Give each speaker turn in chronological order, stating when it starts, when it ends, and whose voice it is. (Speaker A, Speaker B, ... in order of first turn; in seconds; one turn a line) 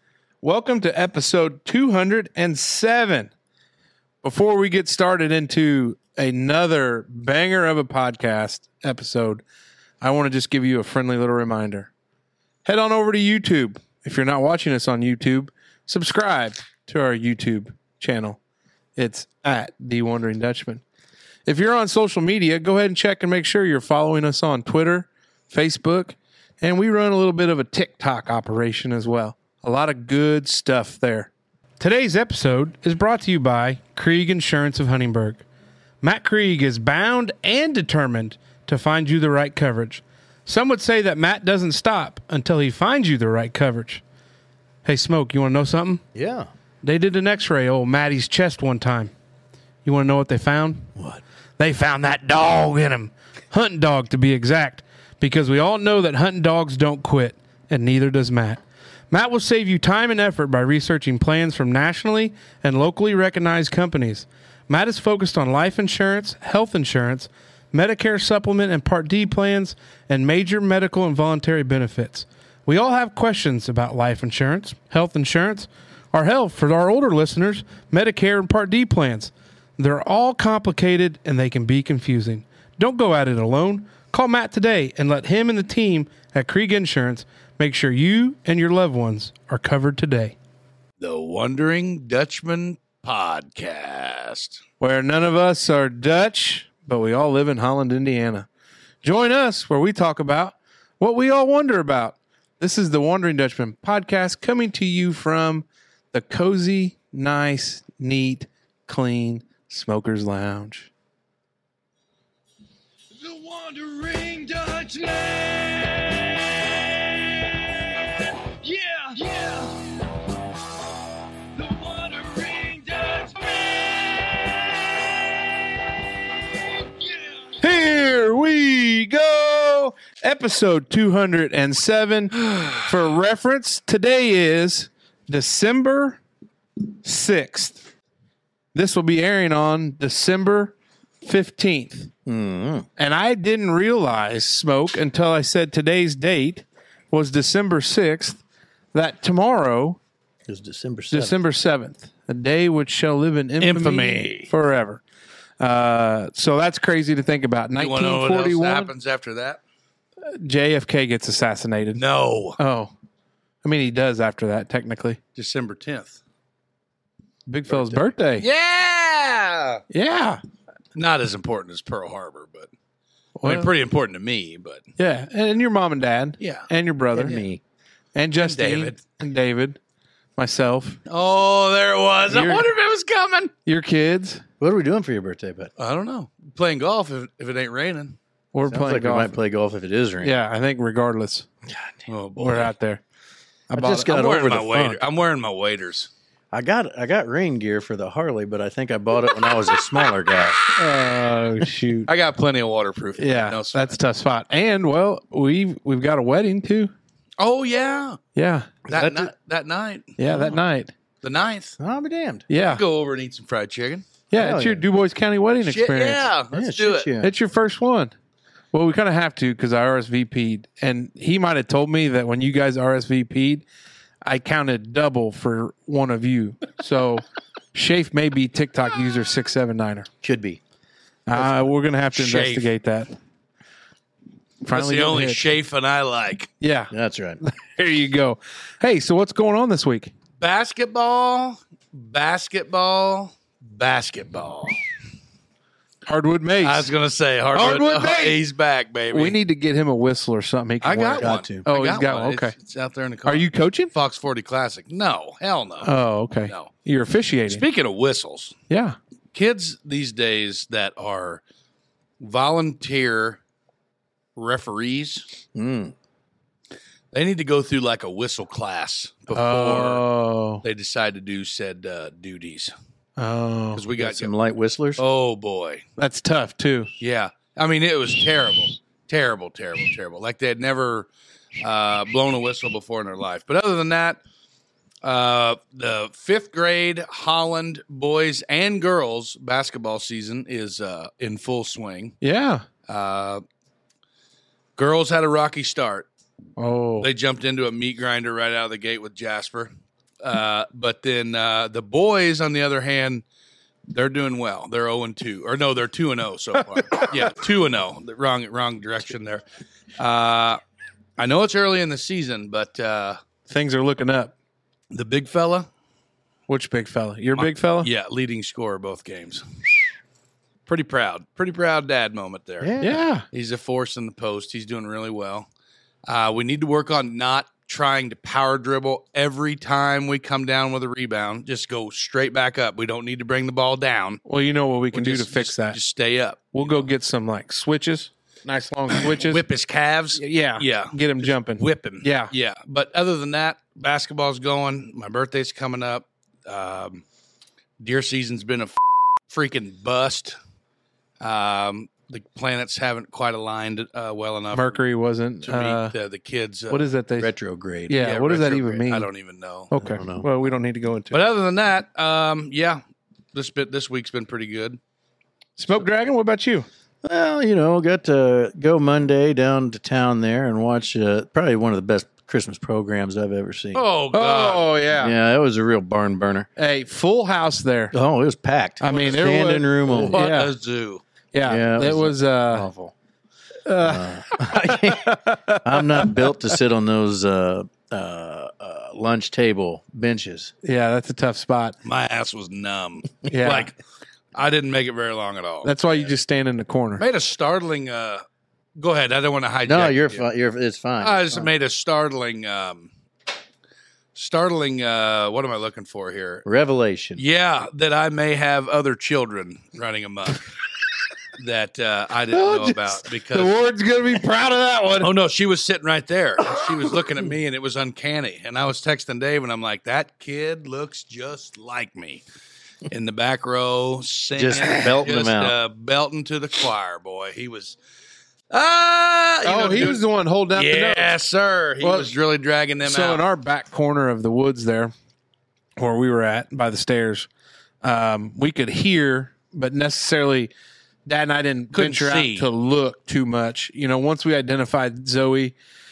Speaker A: 0.4-3.3
Speaker A: 4.2-9.4
Speaker A: 10.0-11.9
Speaker A: 12.7-18.4
Speaker A: 19.0-20.8
Speaker A: 21.5-35.5
Speaker A: 36.0-44.0
Speaker A: 44.9-46.0
Speaker B: 46.1-46.5
Speaker A: 46.8-49.1
Speaker A: 49.9-50.9
Speaker B: 51.0-51.2
Speaker A: 51.6-90.4
Speaker C: 91.0-94.6
Speaker A: 94.8-98.5
Speaker A: 99.0-110.9
Speaker C: 113.3-115.3
Speaker C: 118.7-119.5
Speaker C: 121.6-123.7
Speaker A: 127.6-136.2
Speaker A: 137.0-137.8
Speaker A: 138.7-142.1
Speaker B: 142.3-142.9
Speaker A: 143.0-148.4
Speaker A: 148.9-150.0
Speaker B: 150.5-151.4
Speaker A: 151.1-155.0
Speaker C: 153.6-154.5
Speaker A: 155.6-158.9
Speaker C: 157.8-159.6
Speaker A: 160.3-162.0
Speaker C: 162.0-162.6
Speaker A: 162.6-162.9
Speaker A: 163.6-165.2
Speaker C: 165.4-166.2
Speaker A: 167.5-168.5
Speaker B: 167.7-168.1
Speaker C: 168.4-169.8
Speaker A: 169.9-170.4
Speaker C: 170.9-172.7
Speaker A: 173.4-173.7
Speaker C: 173.4-174.9
Speaker A: 175.0-177.4
Speaker C: 176.4-176.7
Speaker B: 177.1-177.6
Speaker A: 178.2-179.8
Speaker C: 178.4-179.0
Speaker A: 180.4-181.0
Speaker C: 181.1-183.5
Speaker A: 182.3-182.7
Speaker A: 183.7-184.4
Speaker B: 184.6-185.7
Speaker C: 185.8-188.2
Speaker A: 188.5-189.4
Speaker B: 188.7-190.3
Speaker A: 190.2-191.5
Speaker C: 192.1-192.7
Speaker A: 192.4-193.0
Speaker A: 193.7-194.1
Speaker B: 193.8-195.0
Speaker C: 193.9-196.1
Speaker B: 196.5-200.7
Speaker A: 200.8-202.1
Speaker C: 202.1-203.9
Speaker A: 203.2-206.9
Speaker C: 207.4-208.2
Speaker A: 208.3-208.8
Speaker C: 208.9-210.2
Speaker B: 208.9-209.3
Speaker A: 210.2-210.9
Speaker C: 211.2-211.8
Speaker B: 211.8-212.5
Speaker A: 212.5-212.8
Speaker C: 212.7-214.1
Speaker A: 214.3-216.3
Speaker B: 214.3-214.8
Speaker C: 215.7-217.1
Speaker B: 216.5-217.3
Speaker A: 217.2-218.1
Speaker A: 218.7-223.7
Speaker A: 224.2-230.1
Speaker B: 230.2-230.6
Speaker A: 231.3-233.1
Speaker C: 232.2-232.7
Speaker A: 234.6-235.4
Speaker C: 234.7-236.5
Speaker A: 236.6-240.1
Speaker B: 236.9-237.4
Speaker C: 240.4-244.8
Speaker A: 246.1-246.9
Speaker C: 246.6-249.4
Speaker A: 247.5-248.4
Speaker A: 249.1-252.5
Speaker C: 250.8-255.9
Speaker B: 251.2-251.6
Speaker A: 253.3-253.9
Speaker A: 255.8-257.6
Speaker C: 257.5-258.6
Speaker A: 258.7-259.0
Speaker C: 259.3-261.4
Speaker C: 262.2-263.4
Speaker C: 264.4-265.3
Speaker B: 265.6-265.9
Speaker C: 267.1-270.0
Speaker A: 269.3-270.6
Speaker C: 270.6-272.7
Speaker A: 273.2-273.8
Speaker C: 273.7-274.3
Speaker B: 274.0-275.0
Speaker C: 275.0-275.8
Speaker A: 276.0-276.9
Speaker C: 277.0-281.1
Speaker C: 281.6-284.2
Speaker C: 285.0-292.2
Speaker A: 292.2-292.7
Speaker C: 292.9-293.4
Speaker C: 294.8-296.1
Speaker A: 296.6-297.1
Speaker C: 297.0-299.7
Speaker C: 300.2-303.2
Speaker C: 303.9-309.4
Speaker C: 310.0-310.6
Speaker C: 311.2-313.2
Speaker A: 313.5-314.3
Speaker C: 314.9-315.7
Speaker A: 316.5-317.9
Speaker C: 317.4-319.4
Speaker C: 320.7-322.7
Speaker B: 322.6-323.0
Speaker A: 322.8-323.2
Speaker C: 323.3-325.5
Speaker C: 326.1-334.2
Speaker A: 334.3-335.8
Speaker C: 334.9-336.9
Speaker A: 336.5-339.4
Speaker C: 338.9-347.0
Speaker A: 340.1-342.3
Speaker C: 347.8-348.8
Speaker C: 349.3-350.4
Speaker C: 351.2-354.8
Speaker A: 354.5-355.9
Speaker C: 355.4-356.8
Speaker A: 356.7-357.3
Speaker B: 357.2-358.0
Speaker A: 357.9-359.1
Speaker C: 357.9-359.7
Speaker A: 359.7-361.2
Speaker B: 359.8-360.3
Speaker C: 361.1-362.8
Speaker C: 363.3-364.8
Speaker A: 365.6-366.7
Speaker B: 367.0-373.8
Speaker C: 373.8-374.7
Speaker A: 374.1-375.1
Speaker B: 375.0-376.5
Speaker A: 376.6-377.9
Speaker B: 377.9-380.2
Speaker A: 378.8-380.5
Speaker C: 380.0-381.0
Speaker A: 381.3-382.7
Speaker B: 381.4-382.9
Speaker A: 383.7-386.4
Speaker B: 383.8-390.5
Speaker A: 390.6-391.8
Speaker C: 391.8-393.8
Speaker A: 393.3-393.7
Speaker C: 394.3-396.1
Speaker A: 395.6-397.0
Speaker C: 397.0-398.2
Speaker C: 398.8-400.2
Speaker B: 399.7-401.5
Speaker C: 401.0-402.9
Speaker C: 404.1-406.5
Speaker B: 406.4-407.2
Speaker C: 407.2-410.5
Speaker C: 411.4-413.5
Speaker A: 412.3-415.1
Speaker C: 415.0-422.2
Speaker C: 422.9-427.8
Speaker B: 424.4-425.6
Speaker C: 428.5-430.0
Speaker A: 429.4-431.1
Speaker C: 430.5-433.2
Speaker A: 431.8-432.1
Speaker A: 432.8-434.9
Speaker A: 435.8-437.3
Speaker A: 437.8-440.5
Speaker A: 441.1-445.5
Speaker C: 441.7-442.5